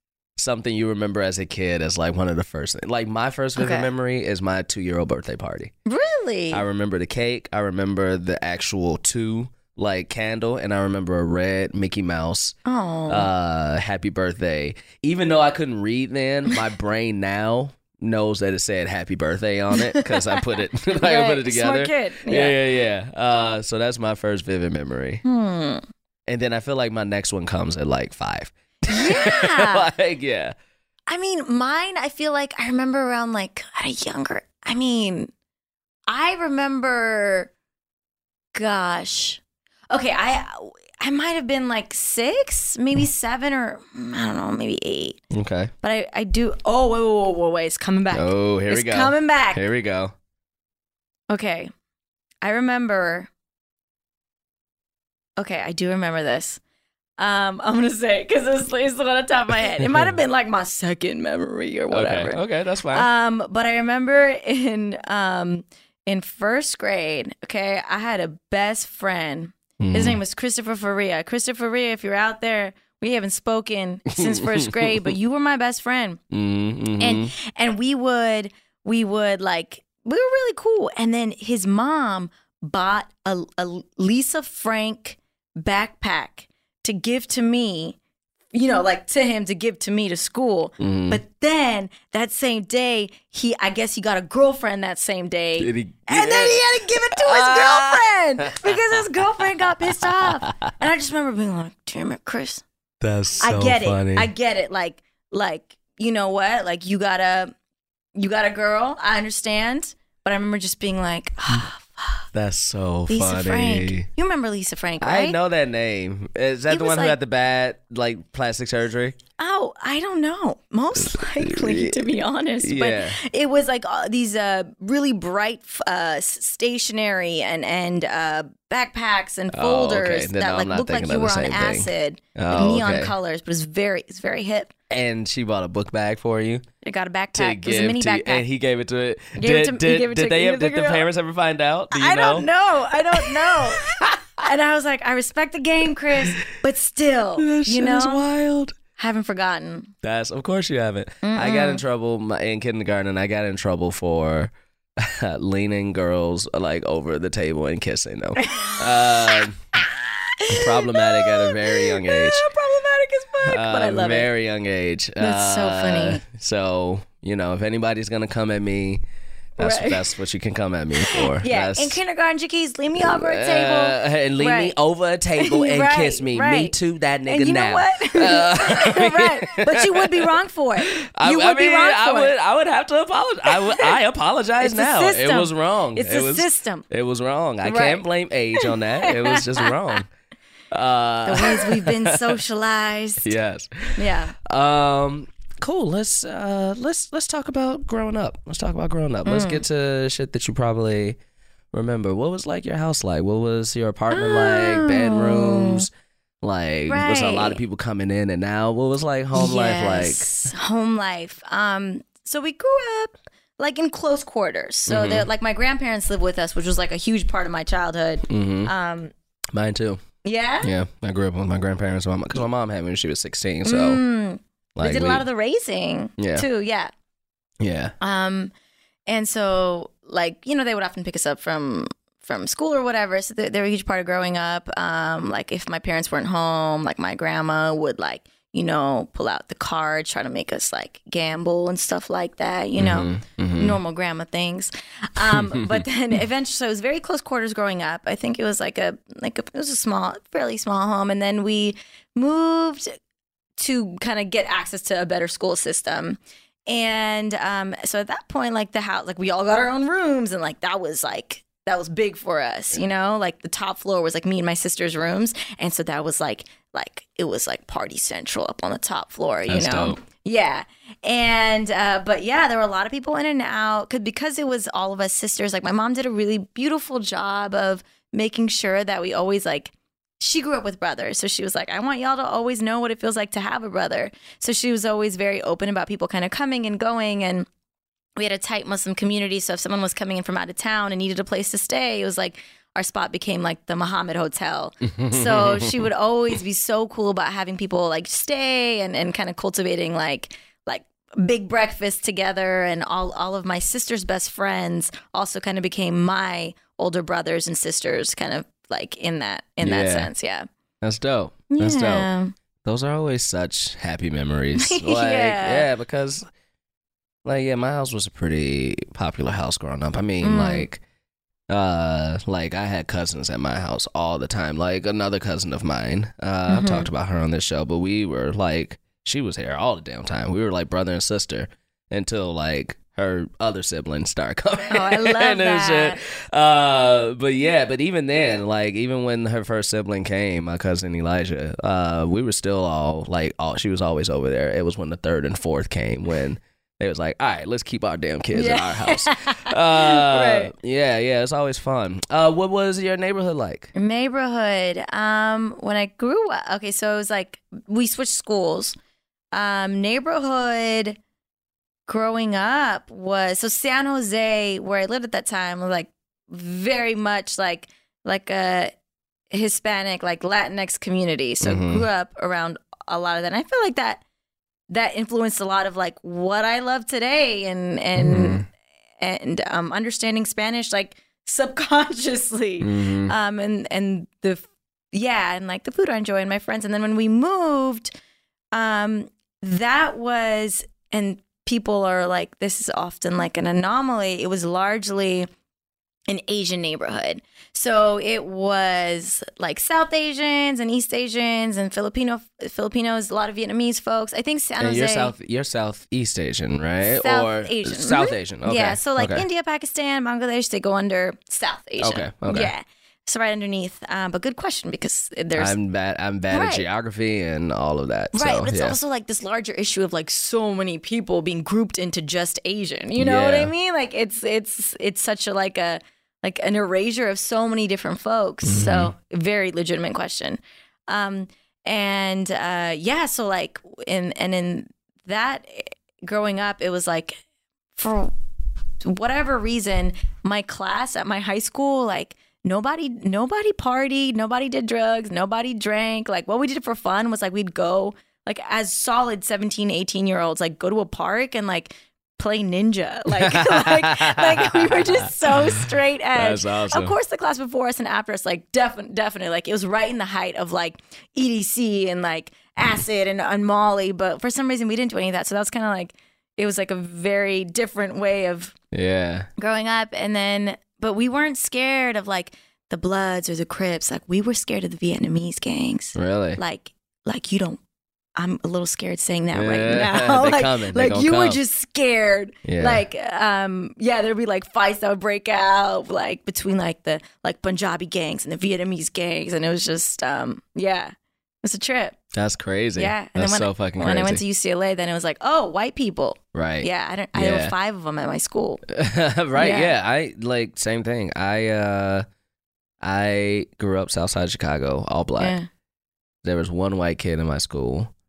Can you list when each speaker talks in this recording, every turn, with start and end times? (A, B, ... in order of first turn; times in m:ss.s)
0:00.4-0:05.7 A
0:03.6-0:03.9 B
0:05.9-0:06.6 B
0:06.5-0:12.6 A
0:12.6-0:13.3 B
0:13.1-0:25.2 A
0:19.7-0:22.6 B
0:25.2-0:25.8 B
0:26.3-0:30.5 A
0:28.9-0:29.9 B
0:31.1-0:35.3 B
0:36.1-0:37.5 B
0:38.6-0:45.2 B
0:45.3-0:45.7 A
0:45.8-0:49.6 B
0:48.1-0:50.1 A
0:51.3-0:51.7 B
0:52.4-0:53.3 B
0:55.4-0:56.6 B
0:57.2-1:02.4 B
0:59.8-1:00.2 A
1:01.9-1:03.1 A
1:02.9-1:16.2 B
1:09.8-1:10.2 A
1:14.1-1:15.1 A
1:16.3-1:17.3 A
1:17.0-1:28.0 B
1:28.5-1:42.6 B
1:30.8-1:31.2 A
1:35.6-1:40.7 A
1:43.0-1:44.3 A
1:43.4-1:47.5 B
1:48.2-1:52.3 B
1:52.3-1:54.1 A
1:53.1-1:55.4 B
1:55.0-1:59.2 A
1:56.7-1:57.2 B
1:59.4-2:14.7 B
2:01.0-2:03.2 A
2:09.5-2:13.1 A
2:14.9-2:16.6 A
2:16.8-2:18.4 B
2:17.4-2:22.5 A
2:19.4-2:21.1 B
2:21.9-2:28.2 B
2:23.1-2:23.8 A
2:27.4-2:28.8 A
2:29.0-2:29.9 B
2:30.0-2:39.6 A
2:31.2-2:31.8 B
2:38.4-2:39.4 B
2:40.4-2:44.3 B
2:40.5-2:42.4 A
2:43.4-2:49.0 A
2:45.2-2:46.2 B
2:49.6-2:52.0 A
2:49.6-2:50.1 B
2:51.0-2:54.8 B
2:53.0-3:00.3 A
2:55.4-3:02.3 B
3:00.8-3:10.1 A
3:03.5-3:04.0 B
3:04.6-3:06.8 B
3:07.6-3:10.0 B
3:10.7-3:12.4 A
3:11.3-3:13.3 B
3:13.2-3:21.2 A
3:14.0-3:14.4 B
3:19.2-3:19.6 B
3:21.7-3:25.9 A
3:24.1-3:25.9 B
3:26.4-3:30.5 A
3:26.9-3:27.6 B
3:29.3-3:39.1 B
3:34.9-3:35.3 A
3:38.3-3:38.7 A
3:39.5-3:40.0 A
3:40.2-3:40.7 B
3:40.6-3:44.0 A
3:43.6-3:46.9 B
3:44.8-3:45.3 A
3:46.2-3:46.5 A
3:47.6-3:47.9 A
3:48.0-3:48.5 B
3:49.1-4:12.9 B
4:02.8-4:03.8 A
4:05.2-4:05.8 A
4:13.6-4:47.5 B
4:29.5-4:30.0 A
4:48.2-5:10.5 B
4:54.9-4:55.9 A
5:09.6-5:10.1 A
5:10.8-5:12.1 A
5:11.5-5:12.4 B
5:12.6-5:16.3 A
5:14.6-5:15.7 B
5:17.2-5:20.8 A
5:20.2-5:20.7 B
5:21.5-5:53.7 A
5:26.5-5:26.9 B
5:34.7-5:36.0 B
5:48.3-5:50.5 B
5:53.8-5:58.8 B
5:59.3-6:01.0 B
6:01.9-6:08.7 B
6:09.3-6:14.0 B
6:11.4-6:11.9 A
6:14.7-6:18.4 B
6:18.0-6:18.4 A
6:19.0-6:27.9 B
6:22.6-6:23.1 A
6:28.5-6:35.3 B
6:36.1-6:45.2 B
6:44.6-6:49.3 A
6:46.8-6:55.6 B
6:51.8-6:52.5 A
6:55.4-6:58.8 A
6:56.3-6:56.7 B
6:58.1-7:17.2 B
7:03.0-7:03.5 A
7:08.4-7:08.9 A
7:17.8-7:18.1 B
7:18.8-7:48.6 B
7:33.1-7:37.0 A
7:48.7-7:49.3 A
7:49.4-7:57.6 B
7:56.0-7:56.4 A
7:58.2-8:10.9 B
7:59.3-8:01.4 A
8:02.4-8:02.8 A
8:11.4-8:12.0 B
8:12.1-8:14.2 A
8:12.8-8:18.6 B
8:16.3-8:17.5 A
8:18.7-8:22.0 A
8:19.4-8:19.7 B
8:22.8-8:25.4 A
8:25.2-8:25.5 B
8:26.2-8:27.9 A